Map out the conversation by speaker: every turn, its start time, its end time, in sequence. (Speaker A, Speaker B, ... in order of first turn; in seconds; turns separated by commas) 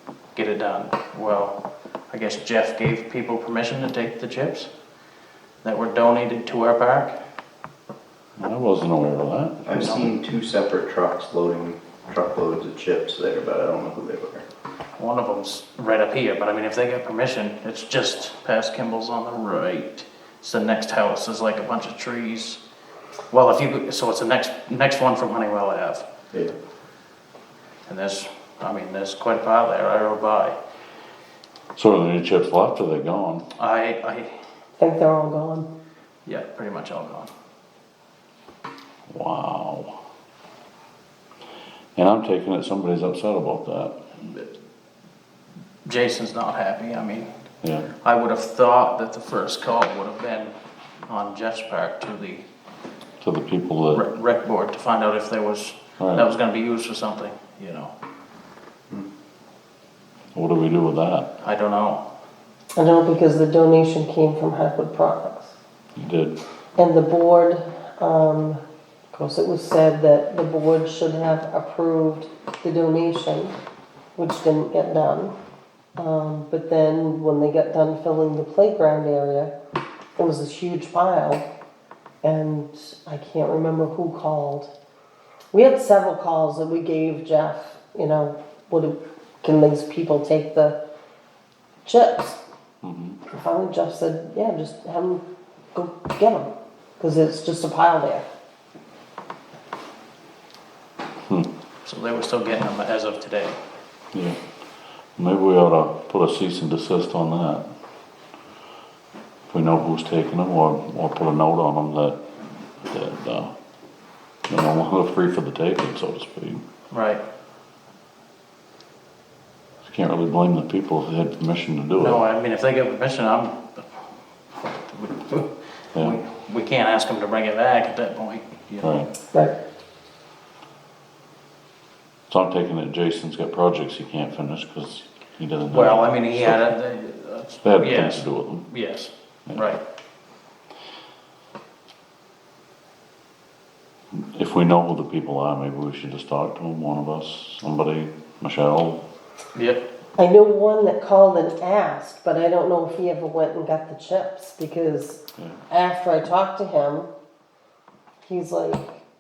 Speaker A: 0.3-1.6, Speaker A: 2.1-4.7, Speaker A: 5.6-7.2, Speaker B: 8.4-9.7, Speaker C: 9.7-14.4, Speaker A: 9.7-10.1, Speaker A: 15.0-22.6, Speaker A: 23.3-26.1, Speaker A: 27.9-30.6, Speaker B: 31.8-33.5, Speaker A: 33.6-34.3, Speaker D: 34.8-35.7, Speaker A: 36.3-37.3, Speaker B: 39.1-40.0, Speaker B: 42.0-44.0, Speaker A: 45.9-47.3, Speaker B: 47.6-47.9, Speaker A: 47.9-50.5, Speaker A: 51.1-52.4, Speaker B: 53.2-54.1, Speaker A: 53.9-57.9, Speaker B: 56.0-56.3, Speaker B: 60.3-61.3, Speaker A: 61.4-62.0, Speaker D: 62.8-65.5, Speaker B: 66.0-66.4, Speaker D: 66.8-68.6, Speaker D: 69.1-73.5, Speaker D: 74.2-75.3, Speaker D: 76.0-79.5, Speaker D: 80.2-81.5, Speaker D: 82.2-84.7, Speaker D: 85.5-90.8, Speaker D: 91.8-92.4, Speaker B: 92.8-93.2, Speaker D: 93.3-95.2, Speaker D: 95.7-98.3, Speaker A: 101.8-103.6, Speaker B: 104.1-104.4, Speaker B: 105.2-107.7, Speaker B: 109.5-112.2, Speaker B: 112.8-113.5, Speaker B: 114.5-116.6, Speaker A: 116.9-117.2, Speaker B: 119.8-122.2, Speaker A: 122.0-128.9, Speaker B: 128.8-129.1, Speaker B: 132.3-136.7, Speaker A: 135.7-139.8, Speaker B: 137.6-138.7, Speaker B: 144.1-149.0, Speaker A: 149.6-149.8, Speaker D: 150.2-157.1, Speaker D: 158.2-159.0